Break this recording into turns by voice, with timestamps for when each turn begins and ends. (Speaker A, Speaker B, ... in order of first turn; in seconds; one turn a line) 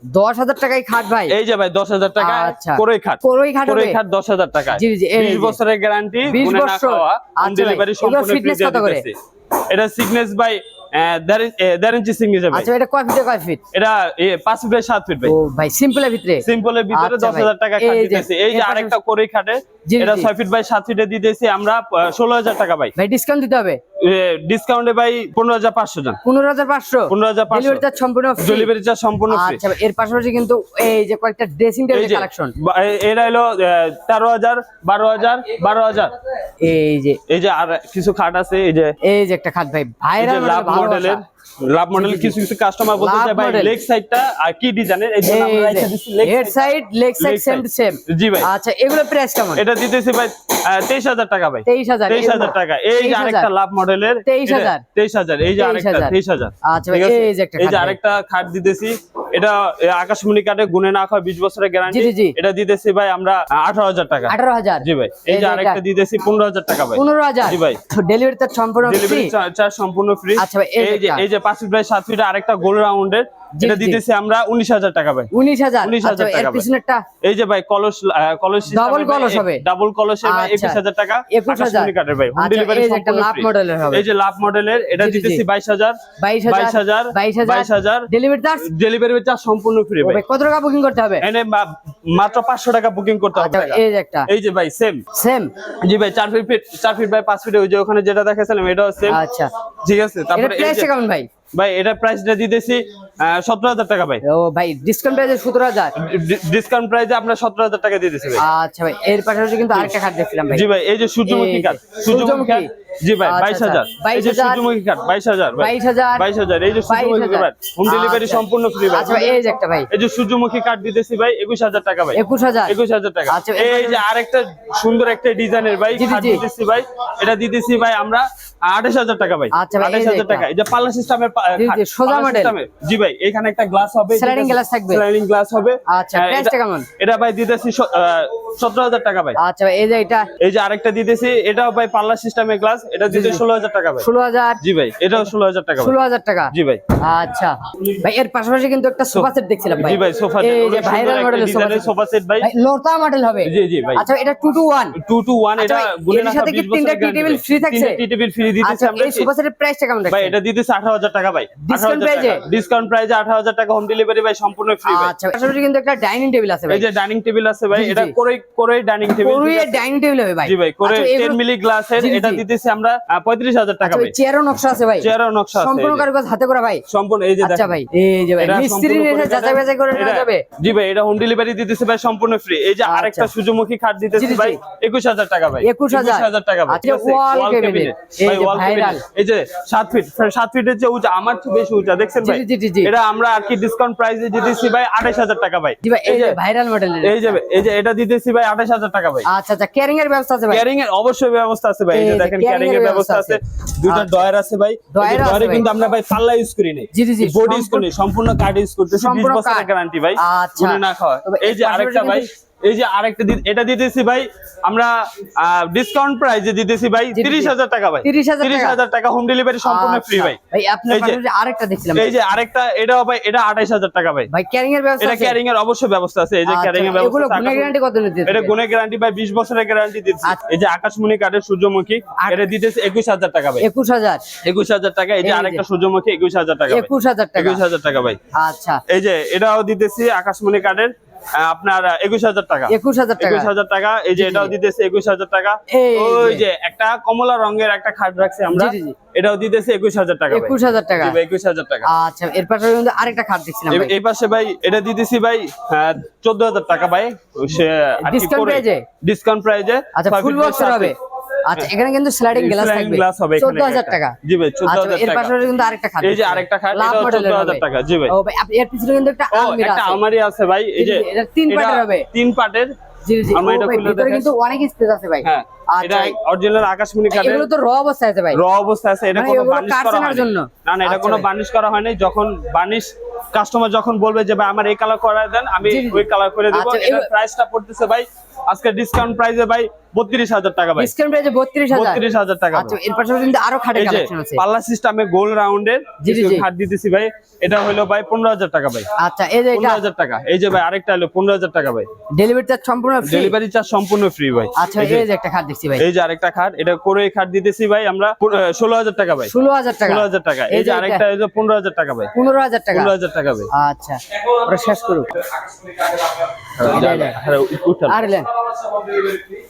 Speaker A: 0.1-1.4
Speaker B: 1.3-9.2
Speaker A: 2.2-4.0
Speaker A: 4.7-5.6
Speaker A: 6.2-9.1
Speaker B: 9.7-12.7
Speaker A: 12.5-13.6
Speaker B: 13.7-15.3
Speaker A: 15.2-19.0
Speaker B: 16.4-22.9
Speaker A: 19.9-20.3
Speaker A: 23.0-23.8
Speaker B: 24.0-26.2
Speaker A: 26.2-28.7
Speaker B: 27.1-27.8
Speaker B: 28.4-29.6
Speaker A: 29.3-32.5
Speaker B: 31.9-36.1
Speaker A: 36.6-37.2
Speaker B: 37.3-38.9
Speaker A: 39.0-41.2
Speaker B: 40.2-46.6
Speaker A: 42.0-42.4
Speaker A: 43.0-43.8
Speaker A: 45.2-49.6
Speaker B: 47.2-48.5
Speaker B: 49.6-67.8
Speaker A: 51.7-53.5
Speaker A: 54.2-54.8
Speaker A: 55.5-58.0
Speaker A: 61.9-62.4
Speaker A: 64.3-65.8
Speaker A: 67.0-69.3
Speaker B: 68.8-75.3
Speaker A: 70.4-71.2
Speaker A: 73.6-74.0
Speaker A: 75.3-77.0
Speaker B: 75.8-76.7
Speaker B: 77.2-88.1
Speaker A: 78.7-79.6
Speaker A: 80.2-80.8
Speaker A: 81.3-84.1
Speaker A: 85.0-85.4
Speaker A: 86.2-88.7
Speaker B: 88.6-90.2
Speaker A: 90.0-91.2
Speaker B: 91.2-95.0
Speaker A: 93.3-94.3
Speaker A: 95.1-95.5
Speaker B: 95.8-99.2
Speaker A: 99.1-99.5
Speaker B: 99.8-100.9
Speaker A: 100.3-101.3
Speaker B: 101.5-104.2
Speaker A: 104.2-105.9
Speaker B: 106.0-108.4
Speaker A: 108.4-110.7
Speaker B: 110.5-139.4
Speaker A: 111.2-112.7
Speaker A: 113.2-114.7
Speaker A: 115.6-116.3
Speaker A: 116.9-119.9
Speaker A: 122.1-122.8
Speaker A: 123.3-124.0
Speaker A: 126.0-126.5
Speaker A: 129.5-130.5
Speaker A: 131.6-132.6
Speaker A: 134.1-135.0
Speaker A: 135.9-136.9
Speaker A: 139.4-140.3
Speaker B: 140.4-144.1
Speaker A: 143.1-143.4
Speaker A: 144.0-144.6
Speaker B: 144.6-145.9
Speaker A: 145.8-155.0
Speaker B: 146.5-146.8
Speaker B: 149.1-152.5
Speaker B: 153.4-154.1
Speaker B: 154.9-159.3
Speaker A: 155.6-158.0
Speaker A: 158.6-160.4
Speaker B: 160.1-165.1
Speaker A: 161.7-162.4
Speaker A: 164.9-166.9
Speaker B: 166.7-169.8
Speaker A: 167.7-168.2
Speaker A: 169.1-171.4
Speaker B: 170.4-174.1
Speaker A: 172.0-172.4
Speaker A: 173.8-176.8
Speaker B: 175.0-176.1
Speaker B: 176.9-177.8
Speaker A: 177.4-180.5
Speaker B: 178.4-196.4
Speaker A: 182.8-183.3
Speaker A: 184.2-184.6
Speaker A: 185.6-189.0
Speaker A: 192.2-192.9
Speaker A: 195.8-197.4
Speaker B: 197.0-199.3
Speaker A: 199.3-200.6
Speaker B: 200.5-220.4
Speaker A: 201.9-204.2
Speaker A: 204.9-205.7
Speaker A: 206.9-207.9
Speaker A: 208.9-212.3
Speaker A: 217.1-218.8
Speaker A: 219.6-222.2
Speaker B: 220.9-221.2
Speaker B: 221.9-224.3
Speaker A: 224.3-225.4
Speaker B: 225.0-227.7
Speaker A: 226.5-228.5
Speaker B: 228.2-233.7
Speaker A: 232.2-232.5
Speaker A: 233.6-234.2
Speaker B: 234.4-238.2
Speaker A: 235.2-235.6
Speaker A: 236.7-237.6
Speaker A: 238.3-238.8
Speaker B: 238.9-251.9
Speaker A: 242.7-243.5
Speaker A: 244.2-244.5
Speaker A: 245.7-246.5
Speaker A: 248.5-249.0
Speaker A: 250.3-251.2
Speaker A: 251.9-254.0
Speaker B: 253.7-260.9
Speaker A: 258.0-258.9
Speaker A: 259.9-270.0
Speaker B: 262.3-265.3
Speaker B: 266.0-268.1
Speaker B: 269.3-272.7
Speaker A: 270.8-272.1
Speaker A: 273.1-276.2
Speaker B: 273.3-274.3
Speaker B: 275.2-277.5
Speaker A: 277.1-278.4
Speaker B: 278.3-290.9
Speaker A: 279.1-281.3
Speaker A: 285.6-287.1
Speaker A: 290.8-294.4
Speaker B: 291.7-292.8
Speaker B: 293.8-298.9
Speaker A: 296.0-296.5
Speaker A: 299.0-299.8
Speaker B: 299.5-301.9
Speaker A: 302.1-303.4
Speaker B: 303.0-305.1
Speaker A: 304.6-305.8
Speaker B: 305.8-309.3
Speaker A: 309.3-311.0
Speaker B: 309.8-312.1
Speaker A: 312.1-312.9
Speaker B: 312.7-313.5
Speaker A: 313.5-315.1
Speaker B: 316.6-318.0
Speaker A: 316.6-317.2
Speaker A: 317.9-318.3